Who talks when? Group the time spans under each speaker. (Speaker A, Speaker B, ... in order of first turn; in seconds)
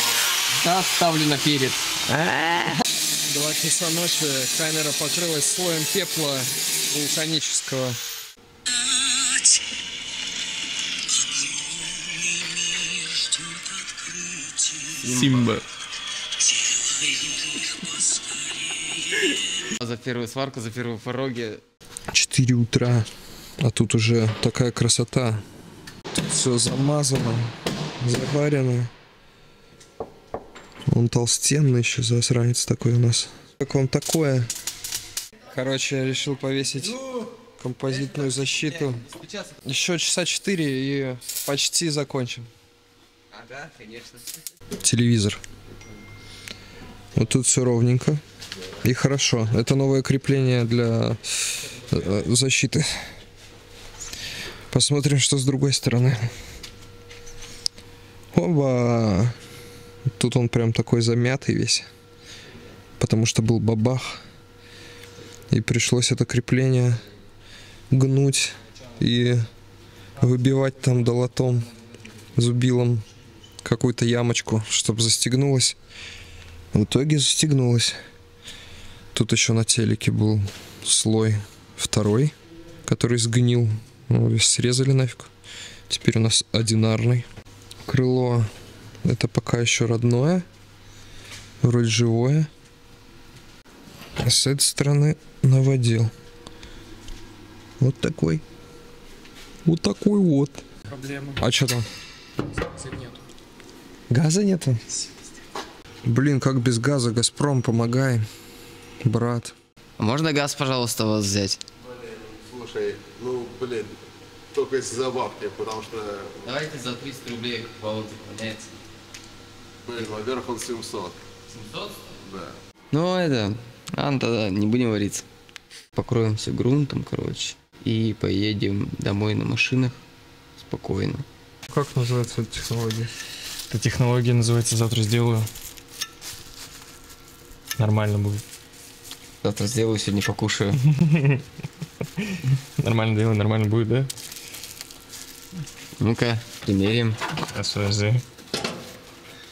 Speaker A: 0.5-1.9, 15.0-15.5, 19.6-21.6, 38.0-39.6, 43.3-44.4, 110.0-111.6, 116.4-118.8, 121.5-122.0, 122.9-125.3, 125.9-130.0, 130.6-131.2, 139.4-140.8, 146.0-147.2
Speaker B: 2.1-8.0, 22.1-23.1, 23.6-25.4, 26.1-28.9, 30.9-34.5, 35.5-37.0, 37.6-39.0, 39.6-42.5, 44.8-45.4, 47.1-48.2, 48.8-52.9, 54.7-56.3, 58.3-59.4, 60.2-61.9, 63.0-64.2, 65.5-67.0, 67.9-69.4, 70.2-71.7, 72.4-73.0, 73.6-75.8, 76.7-78.0, 79.1-82.3, 82.9-85.3, 85.9-87.3, 87.8-88.5, 89.0-90.5, 91.6-92.5, 94.2-96.1, 97.8-98.4, 99.7-100.6, 101.4-101.9, 104.1-104.8, 106.0-108.2, 109.0-109.5, 131.7-133.1
Speaker C: 15.1-15.7, 100.9-101.4, 102.6-103.2, 133.7-135.5, 137.8-138.4, 140.8-141.4, 142.2-144.1, 147.5-148.2
Speaker D: 111.8-114.0, 114.5-116.5, 119.9-121.2, 122.2-122.6